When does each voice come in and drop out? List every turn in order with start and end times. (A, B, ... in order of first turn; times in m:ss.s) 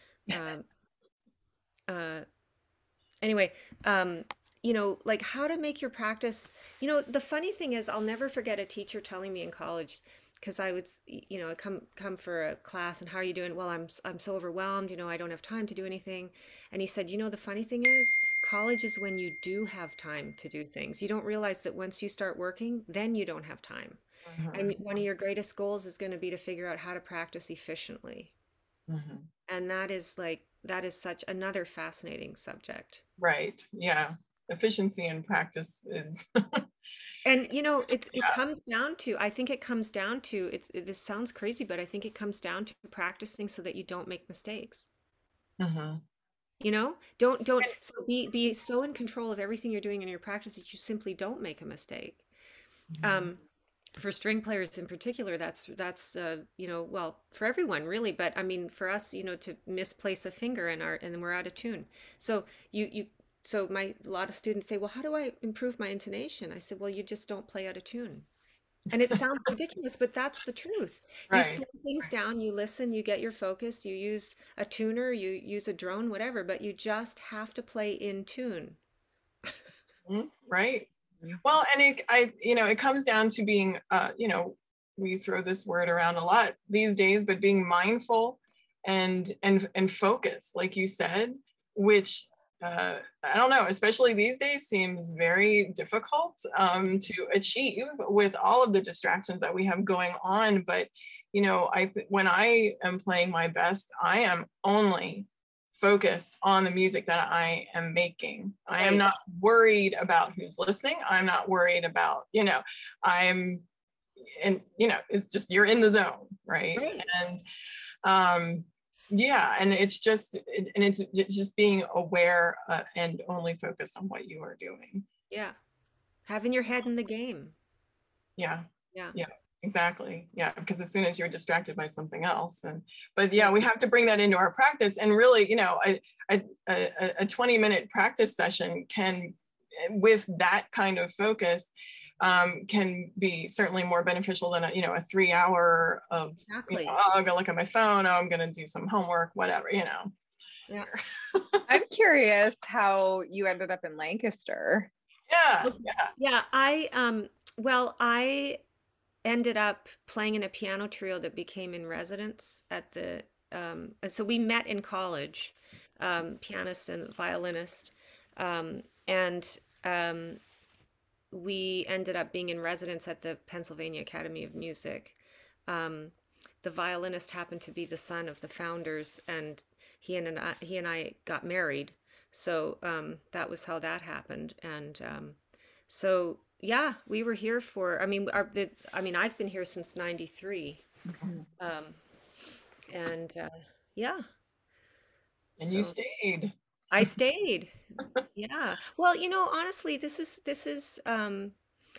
0:00.3-0:00.7 A
0:01.9-0:02.3 A
0:03.2-0:24.0 A
0:24.3-0:24.8 B
0:24.5-0:28.3 A
0:28.9-0:29.3 B
0:29.5-0:33.0 A
0:33.2-0:36.7 B
0:37.2-0:44.9 A
0:45.6-0:46.0 B
0:46.6-0:52.2 A
0:52.9-0:53.3 B
0:53.0-0:53.4 A
0:54.0-1:08.3 A
1:08.9-1:18.8 A
1:11.3-1:12.1 B
1:20.1-1:20.9 B
1:21.4-1:53.6 B
1:48.8-1:49.1 A
1:54.2-1:57.4 B
1:56.8-1:57.1 A
1:58.0-2:05.1 B
2:05.3-2:05.6 A
2:06.3-2:07.6 A
2:08.4-2:30.1 B
2:26.5-2:27.0 A
2:30.9-2:31.7 B
2:31.7-2:34.9 C
2:35.3-2:36.1 B
2:35.6-2:38.6 A
2:39.2-2:50.4 A
2:51.3-2:55.2 A
2:55.7-3:10.8 A
3:11.6-3:12.0 A
3:12.9-3:14.2 A
3:15.6-3:16.0 A
3:15.6-3:16.5 B
3:16.9-3:17.8 A
3:18.4-3:21.6 A